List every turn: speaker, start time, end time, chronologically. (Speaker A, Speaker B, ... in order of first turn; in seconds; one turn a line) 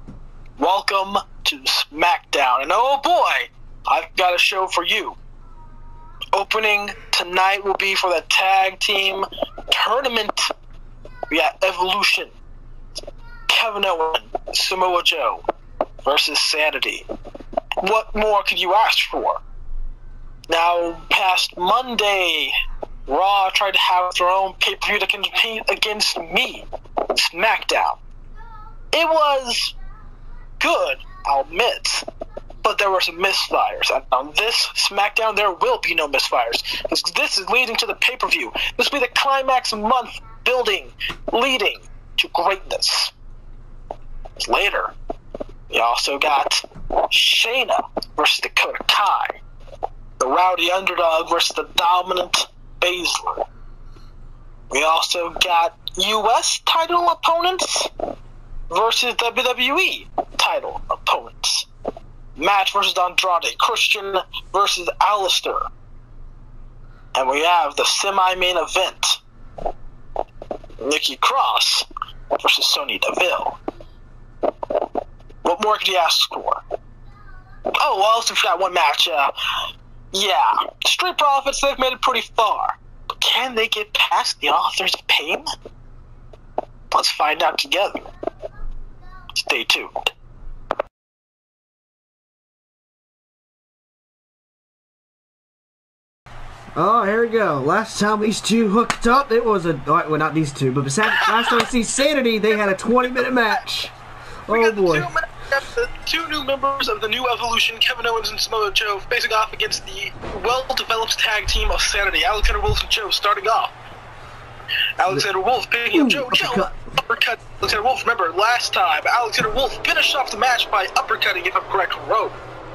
Speaker A: 0.6-5.2
Speaker A: 6.3-10.5
Speaker A: 11.3-12.3
Speaker A: 13.5-15.4
Speaker A: 16.1-17.1
Speaker A: 17.8-19.4
Speaker A: 20.5-22.6
Speaker A: 23.1-28.0
Speaker A: 28.9-29.8
Speaker A: 30.6-32.0
Speaker A: 32.6-43.1
Speaker A: 44.4-44.9
Speaker A: 45.7-49.4
Speaker A: 50.2-53.5
Speaker A: 54.7-57.9
Speaker A: 58.7-61.7
Speaker A: 62.4-65.6
Speaker A: 67.2-69.2
Speaker A: 70.8-73.6
Speaker A: 75.4-76.6
Speaker A: 77.8-79.3
Speaker A: 80.1-85.5
Speaker A: 86.9-88.0
Speaker A: 89.3-90.1
Speaker B: 96.8-103.9
Speaker A: 101.1-101.6
Speaker B: 104.5-105.1
Speaker A: 104.5-113.7
Speaker A: 115.0-122.4
Speaker B: 115.9-116.8